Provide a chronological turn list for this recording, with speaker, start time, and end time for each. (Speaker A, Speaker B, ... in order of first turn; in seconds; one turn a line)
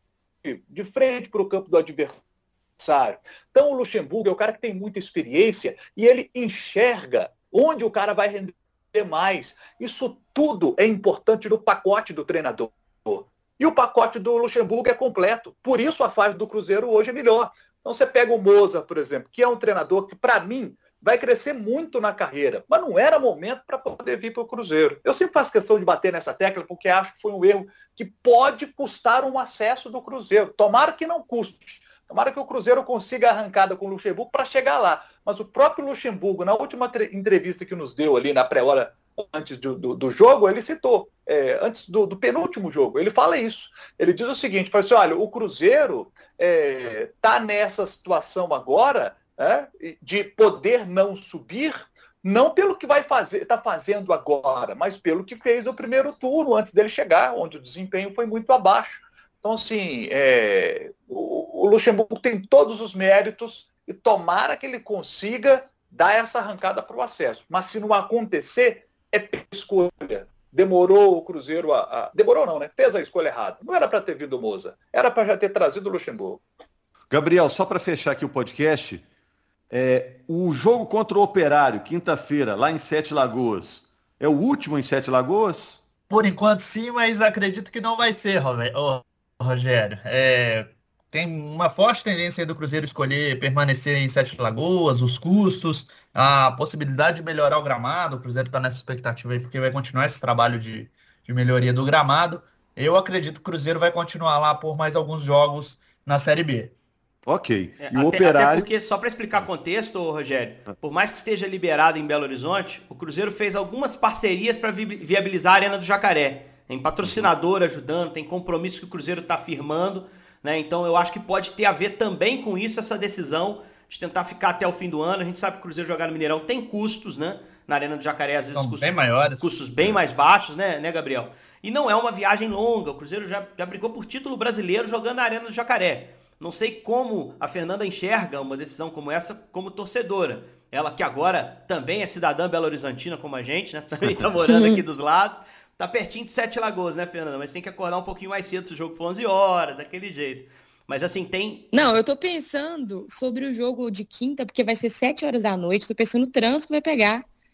Speaker A: 0.4-2.2
Speaker A: 2.8-76.5
Speaker B: 77.1-79.0
Speaker B: 79.7-85.8
Speaker C: 86.1-106.7
Speaker B: 107.3-108.7
Speaker D: 107.8-151.7
Speaker B: 117.0-117.3
Speaker C: 128.5-129.5
Speaker E: 144.5-144.8
Speaker E: 151.7-157.2